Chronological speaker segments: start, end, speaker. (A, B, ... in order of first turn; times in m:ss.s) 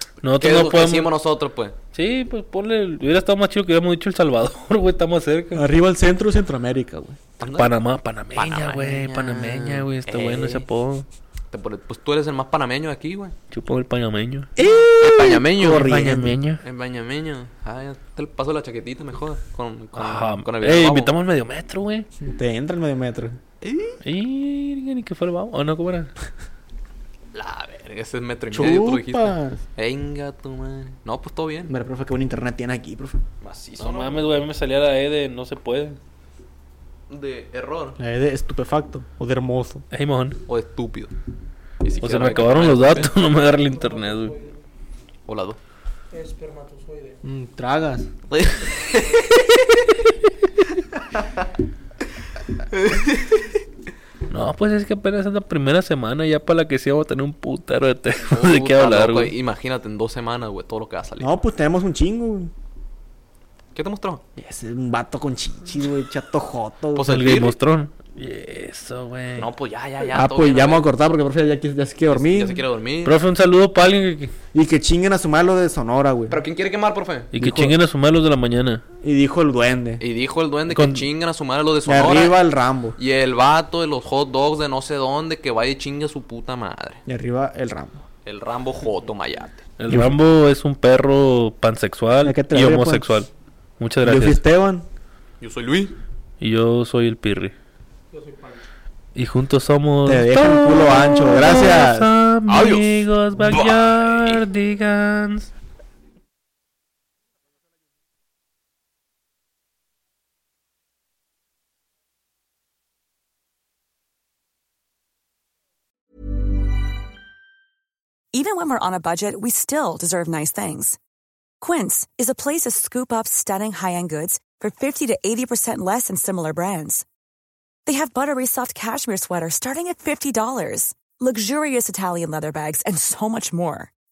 0:00.2-0:01.1 A
0:00.4-0:01.8 B
0:01.9-0:05.6 A
0:05.6-0:07.2 C
0:07.4-0:07.8 B
0:07.5-0:11.1 A
0:08.3-0:10.7 B
0:11.5-0:13.4 B
0:13.5-0:14.5 A
0:14.6-0:16.4 C
0:15.0-0:15.9 B
0:15.6-0:16.6 A
0:16.6-0:21.1 B
0:20.0-0:22.1 A
0:22.2-0:23.4 C
0:23.6-0:24.0 B
0:24.0-0:26.1 A
0:27.3-0:31.8 B
0:28.5-0:29.6 C
0:31.7-0:33.2 C
0:33.4-0:34.5 B
0:33.8-0:36.0 A
0:37.1-0:38.0 B
0:38.0-0:39.8 C
0:39.9-0:40.4 A
0:40.5-0:41.1 B
0:41.8-0:43.1 B
0:42.0-0:44.3 A
0:43.3-0:44.6 D
0:45.3-0:45.6 B
0:46.1-0:47.2 D
0:47.2-0:48.1 C
0:48.3-0:49.8 B
0:52.7-0:53.5 B
0:54.3-0:59.3 A
0:58.3-1:01.3 B
1:01.2-1:02.5 C
1:03.8-1:04.2 B
1:04.4-1:07.4 C
1:07.0-1:07.5 B
1:07.1-1:09.5 A
1:09.4-1:10.9 B
1:10.1-1:12.6 C
1:12.1-1:13.2 B
1:13.0-1:14.3 A
1:14.5-1:16.4 C
1:16.3-1:17.3 B
1:17.3-1:18.8 A
1:17.4-1:17.8 C
1:19.0-1:20.0 C
1:20.0-1:22.4 B
1:20.7-1:21.1 A
1:21.8-1:23.0 C
1:23.0-1:27.0 B
1:27.1-1:28.0 C
1:28.2-1:29.7 B
1:29.8-1:33.3 A
1:29.9-1:30.2 C
1:32.2-1:33.3 C
1:33.8-1:34.4 A
1:34.0-1:34.9 C
1:35.4-1:36.0 B
1:36.4-1:37.5 A
1:38.1-1:38.7 D
1:39.2-1:45.5 A
1:40.0-1:42.1 C
1:42.5-1:44.4 B
1:58.3-2:01.0 E
2:01.6-2:07.0 E
2:07.9-2:13.9 E